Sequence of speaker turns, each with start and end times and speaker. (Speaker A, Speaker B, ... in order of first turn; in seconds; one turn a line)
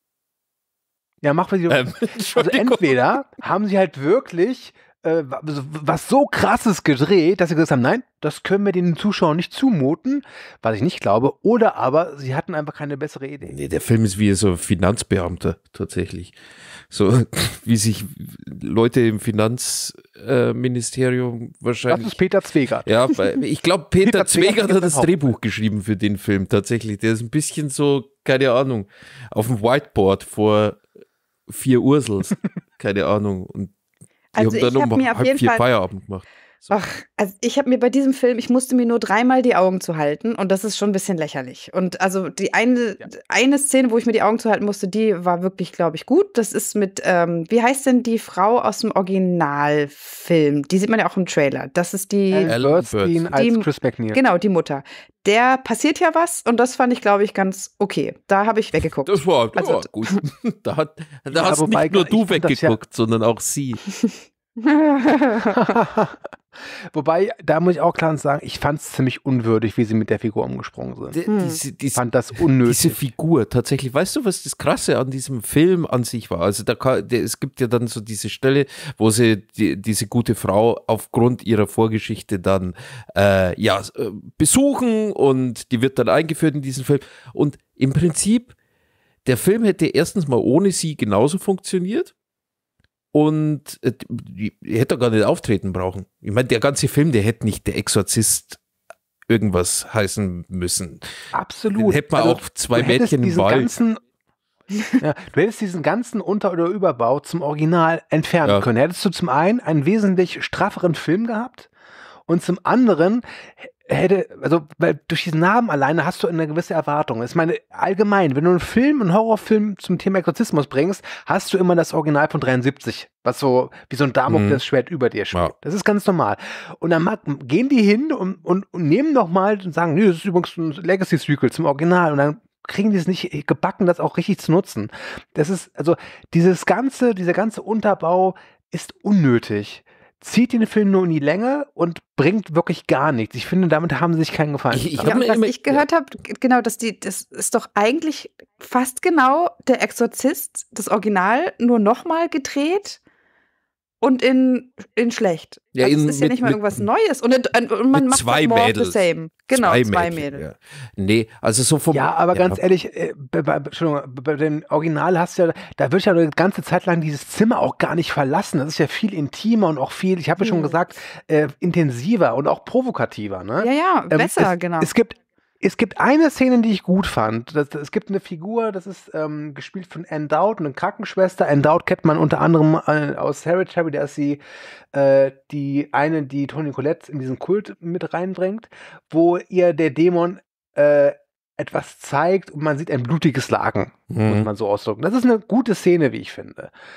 Speaker A: 1.2-13.6
Speaker B: 1.7-3.0
Speaker B: 13.4-16.3
Speaker B: 16.9-22.2
Speaker A: 21.9-22.9
Speaker B: 22.8-30.8
Speaker A: 24.0-25.1
Speaker B: 31.5-33.7
Speaker C: 34.3-35.6
Speaker B: 34.4-36.7
Speaker C: 36.7-52.5
Speaker A: 52.3-54.2
Speaker B: 52.5-53.3
Speaker C: 53.3-60.2
Speaker B: 59.0-63.8
Speaker A: 61.3-62.8
Speaker C: 64.0-65.7
Speaker A: 65.5-66.3
Speaker A: 66.9-71.2
Speaker B: 71.1-72.0
Speaker C: 71.3-71.6
Speaker A: 72.0-73.0
Speaker B: 72.6-88.5
Speaker B: 89.2-92.1
Speaker B: 93.1-98.6
Speaker B: 99.3-101.1
Speaker A: 101.3-104.0
Speaker B: 101.7-103.7
Speaker A: 105.0-111.7
Speaker A: 112.3-145.2
Speaker B: 124.3-124.6
Speaker B: 144.7-145.8
Speaker C: 145.0-153.0
Speaker C: 154.0-160.4
Speaker B: 155.8-156.8
Speaker B: 157.9-162.6
Speaker A: 161.9-184.4
Speaker C: 170.4-170.8
Speaker C: 173.6-174.9
Speaker A: 184.9-196.7
Speaker B: 194.1-194.5